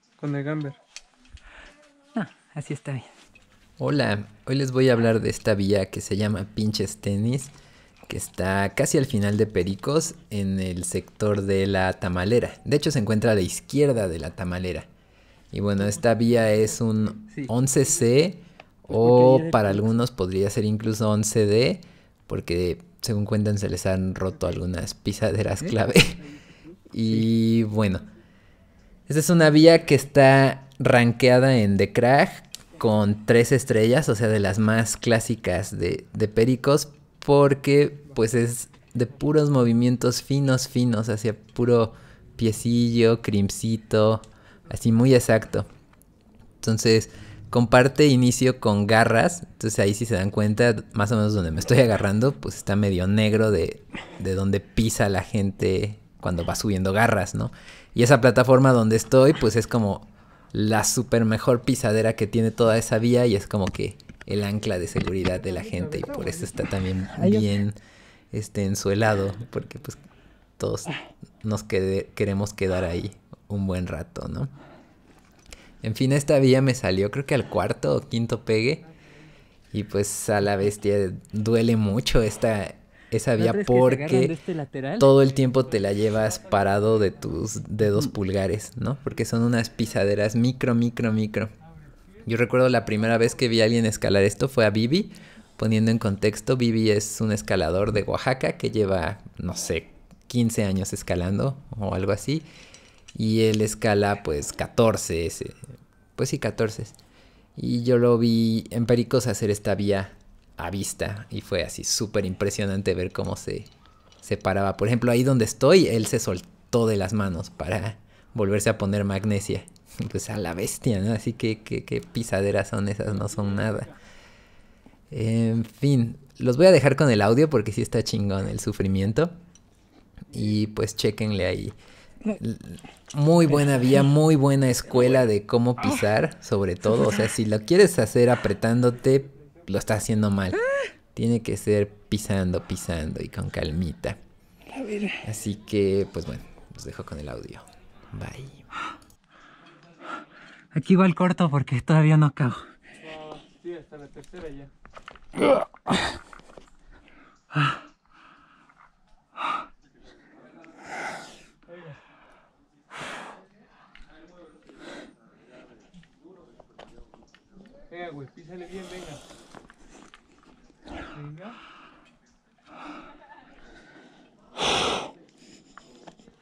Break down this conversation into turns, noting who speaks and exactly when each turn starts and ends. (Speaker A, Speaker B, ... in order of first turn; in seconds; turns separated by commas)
Speaker A: 0.2-0.8, Speaker B: 2.1-3.1, Speaker C: 3.8-7.5, Speaker C: 8.1-14.8, Speaker C: 15.5-26.2, Speaker B: 18.9-19.8, Speaker C: 26.9-28.1, Speaker C: 29.1-45.7, Speaker C: 46.6-67.8, Speaker B: 65.7-66.5, Speaker B: 67.0-67.5, Speaker C: 68.3-70.0, Speaker C: 70.6-74.5, Speaker C: 75.8-78.8, Speaker C: 79.7-84.4, Speaker B: 83.3-85.1, Speaker C: 85.0-91.5, Speaker A: 85.4-87.6, Speaker A: 91.9-92.3, Speaker C: 92.2-102.5, Speaker A: 92.8-93.3, Speaker C: 103.1-105.6, Speaker C: 106.2-107.0, Speaker C: 107.5-113.7, Speaker C: 114.2-123.9, Speaker A: 123.1-123.9, Speaker C: 125.1-129.3, Speaker C: 130.3-131.8, Speaker C: 132.3-144.2, Speaker A: 139.3-140.0, Speaker B: 144.7-145.2, Speaker C: 145.2-148.6, Speaker B: 150.7-152.6, Speaker A: 153.0-154.7, Speaker A: 161.7-162.0, Speaker A: 167.9-169.2, Speaker A: 171.1-171.6